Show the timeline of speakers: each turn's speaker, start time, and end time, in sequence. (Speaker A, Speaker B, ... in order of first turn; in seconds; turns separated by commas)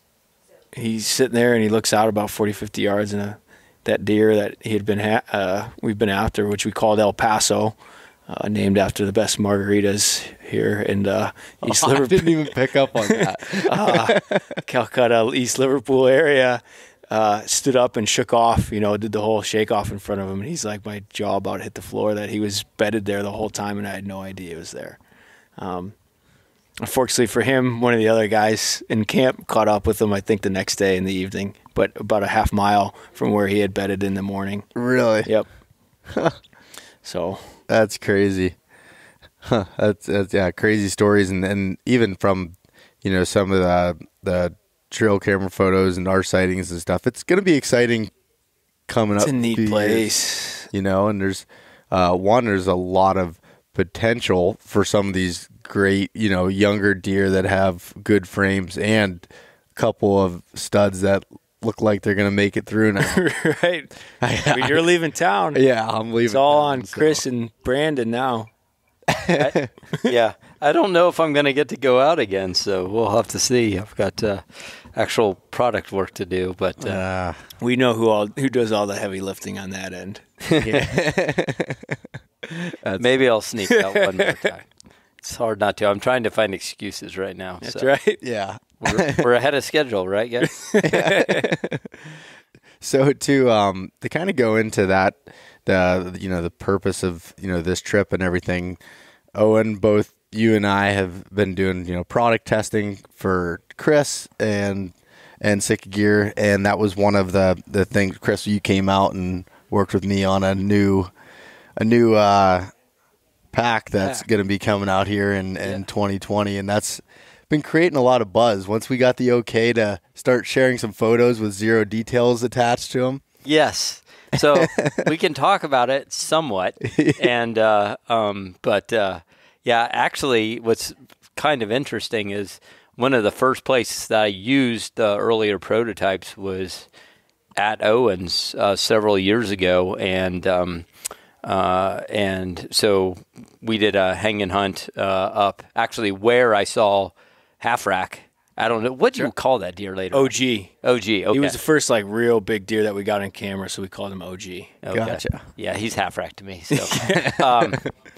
Speaker A: 0.8-7.8, Speaker A: 8.3-12.5, Speaker B: 11.6-14.5, Speaker A: 13.1-25.0, Speaker A: 25.6-25.9, Speaker A: 26.8-34.7, Speaker B: 34.7-35.3, Speaker B: 36.1-36.4, Speaker A: 37.0-37.5, Speaker B: 37.7-38.5, Speaker B: 39.4-48.1, Speaker B: 48.9-50.1, Speaker A: 49.2-50.7, Speaker B: 50.7-63.2, Speaker A: 63.0-63.9, Speaker B: 64.2-64.8, Speaker A: 64.4-65.6, Speaker B: 65.5-67.2, Speaker A: 66.2-68.5, Speaker B: 69.1-69.7, Speaker C: 69.3-77.0, Speaker B: 76.8-77.4, Speaker A: 77.6-80.2, Speaker C: 80.5-80.9, Speaker B: 80.6-83.2, Speaker C: 83.0-84.7, Speaker A: 83.7-84.5, Speaker C: 85.2-87.9, Speaker A: 87.6-88.2, Speaker B: 88.2-89.3, Speaker C: 88.8-90.5, Speaker A: 90.4-91.5, Speaker B: 90.8-92.2, Speaker B: 92.8-98.8, Speaker B: 99.3-111.1, Speaker B: 111.8-112.7, Speaker B: 113.5-123.2, Speaker C: 123.4-136.9, Speaker B: 124.5-125.1, Speaker B: 126.8-127.3, Speaker C: 137.6-140.8, Speaker C: 141.4-151.6, Speaker A: 150.1-150.7, Speaker A: 151.3-154.8, Speaker C: 154.8-157.9, Speaker B: 154.9-155.4, Speaker B: 156.7-157.8